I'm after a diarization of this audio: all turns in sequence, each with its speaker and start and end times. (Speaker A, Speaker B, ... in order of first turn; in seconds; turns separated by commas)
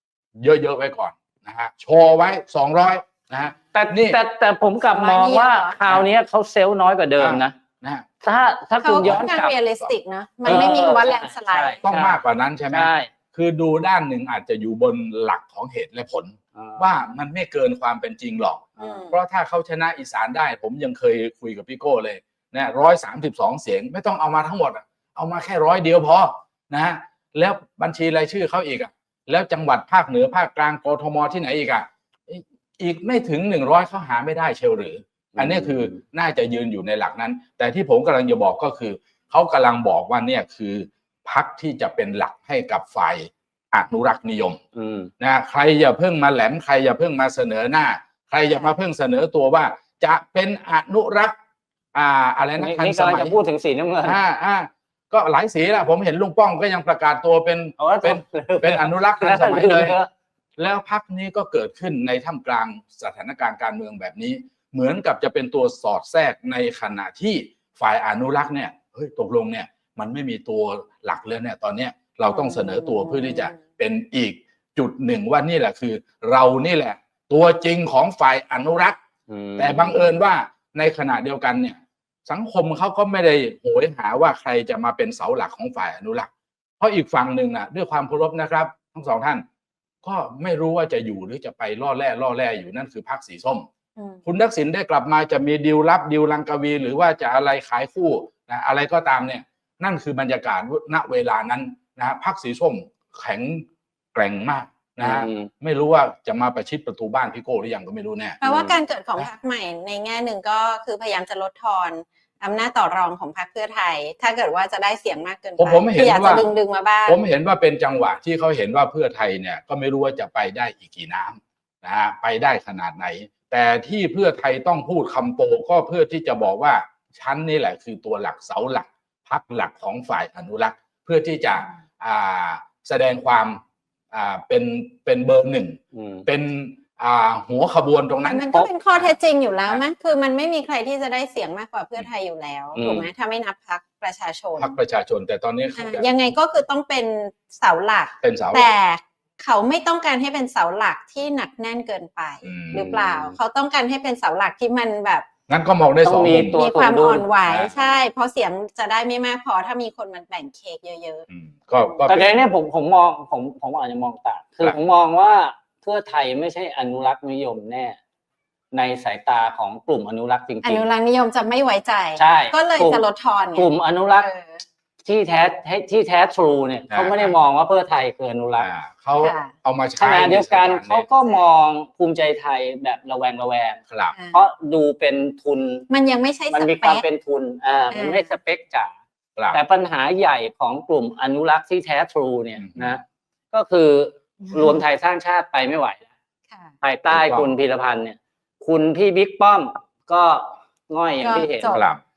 Speaker A: 0.4-4.2, Speaker B: 3.7-7.5, Speaker C: 4.9-6.0, Speaker A: 7.2-8.1, Speaker B: 8.2-9.5, Speaker C: 8.8-11.8, Speaker A: 9.0-9.3, Speaker B: 10.4-13.1, Speaker A: 11.8-44.6, Speaker B: 16.6-16.9, Speaker C: 18.8-19.2, Speaker B: 35.4-36.0, Speaker B: 44.8-45.1, Speaker A: 45.2-51.4, Speaker A: 51.9-53.4, Speaker B: 52.6-54.2, Speaker A: 54.0-60.0, Speaker B: 57.8-60.1, Speaker A: 60.6-79.0, Speaker C: 72.3-73.5, Speaker B: 79.3-80.1, Speaker A: 79.6-89.4, Speaker A: 90.0-93.7, Speaker C: 94.0-94.2, Speaker A: 94.2-108.4, Speaker B: 105.0-105.5, Speaker C: 108.4-117.2, Speaker B: 108.5-108.7, Speaker A: 115.6-116.5, Speaker A: 117.1-133.6, Speaker A: 134.1-139.1, Speaker B: 135.9-136.3, Speaker C: 138.2-144.8, Speaker B: 142.8-143.1, Speaker A: 144.6-146.1, Speaker C: 145.8-155.3, Speaker A: 148.2-148.7, Speaker A: 152.4-153.0, Speaker B: 152.7-153.3, Speaker A: 155.5-156.6, Speaker B: 156.0-157.3, Speaker C: 156.5-162.1, Speaker A: 157.5-157.9, Speaker A: 161.3-162.4, Speaker B: 162.1-168.0, Speaker B: 168.7-170.9, Speaker C: 170.6-174.6, Speaker B: 172.2-173.0, Speaker B: 173.6-174.3, Speaker B: 175.1-178.7, Speaker A: 176.9-177.3, Speaker A: 178.6-181.1, Speaker C: 179.2-179.5, Speaker B: 180.0-183.8, Speaker C: 184.1-184.4, Speaker B: 184.3-185.9, Speaker C: 185.9-187.0, Speaker B: 186.5-188.9, Speaker C: 187.9-188.4, Speaker B: 189.5-196.1, Speaker A: 192.6-193.0, Speaker C: 194.4-194.8, Speaker B: 196.8-201.8, Speaker A: 197.1-197.5, Speaker C: 201.2-201.8, Speaker A: 201.6-202.0